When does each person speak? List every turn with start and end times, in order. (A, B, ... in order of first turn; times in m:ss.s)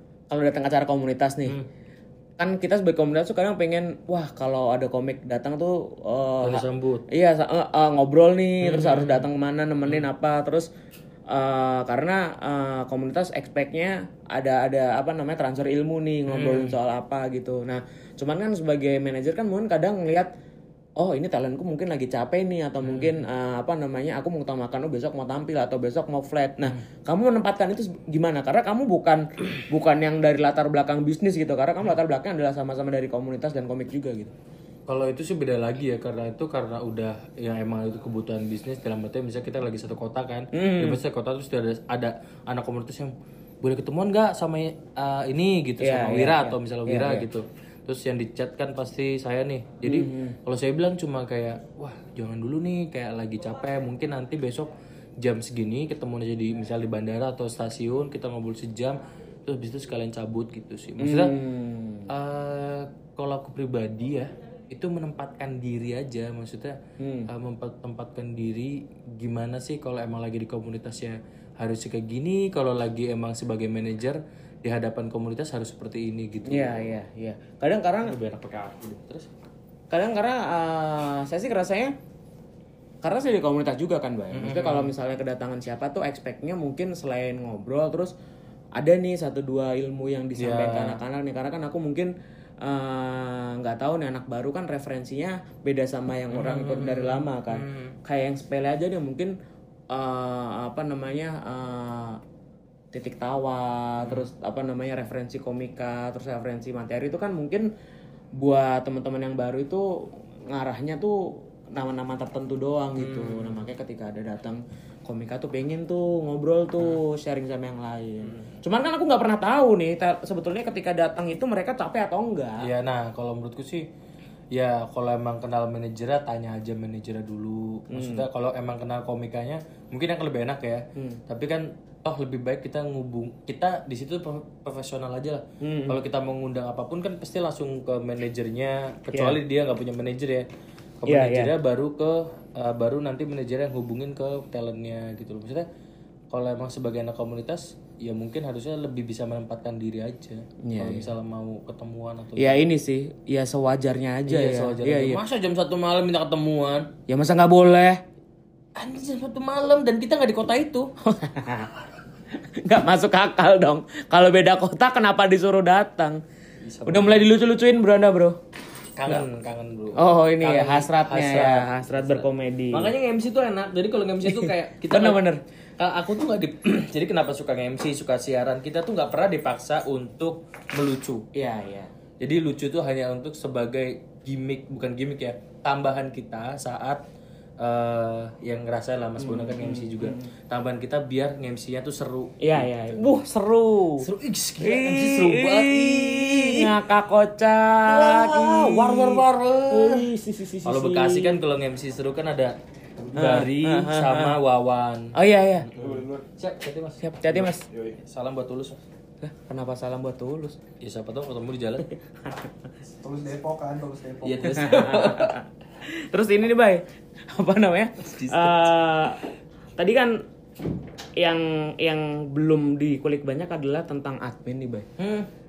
0:00.3-0:01.6 A
0:02.4-0:10.7 A
0:06.4-0:07.0 B
0:08.6-0:09.3 B
0:11.3-0:20.3 A
0:16.3-0:16.8 B
0:21.0-0:34.3 A
0:22.8-0:23.2 B
0:34.9-1:01.3 B
0:40.5-0:41.0 A
0:45.8-0:47.3 A
0:49.8-0:50.4 A
1:01.0-1:02.1 A
1:02.1-1:16.8 B
1:07.0-1:07.3 A
1:16.4-1:18.2 A
1:18.0-1:19.3 B
1:19.9-1:21.9 A
1:23.0-1:28.1 A
1:24.3-1:24.9 B
1:28.8-1:32.1 A
1:30.4-1:31.0 B
1:32.6-1:39.3 A
1:36.3-1:38.0 B
1:39.9-1:42.2 A
1:42.9-1:47.6 A
1:48.4-2:02.7 A
1:53.0-1:53.6 B
2:02.6-2:03.9 B
2:04.5-2:20.5 B
2:07.9-2:08.2 A
2:15.6-2:16.0 A
2:19.1-2:19.4 A
2:21.0-2:25.7 B
2:21.1-2:21.5 A
2:26.3-2:32.6 B
2:30.6-2:31.1 A
2:32.4-2:35.2 A
2:34.2-2:36.9 B
2:37.1-2:38.0 A
2:38.8-2:40.9 B
2:41.0-2:41.7 A
2:42.4-2:46.2 A
2:46.6-2:47.3 B
2:46.8-2:48.4 A
2:49.0-2:55.2 B
2:50.0-2:52.9 A
2:54.3-2:55.4 A
2:55.8-3:01.2 B
3:01.3-3:01.9 A
3:02.2-3:07.0 B
3:07.6-3:13.1 B
3:09.2-3:10.3 A
3:12.4-3:14.1 A
3:14.0-3:16.8 B
3:14.6-3:21.4 A
3:17.9-3:20.1 B
3:20.6-3:28.8 B
3:23.2-3:24.3 A
3:25.1-3:25.7 A
3:25.8-3:26.2 C
3:27.0-3:27.6 A
3:29.2-3:30.6 A
3:30.8-3:31.8 B
3:33.0-3:34.6 C
3:34.2-3:35.4 B
3:34.5-3:40.1 A
3:38.0-3:38.7 B
3:41.2-3:44.9 A
3:45.0-3:45.3 B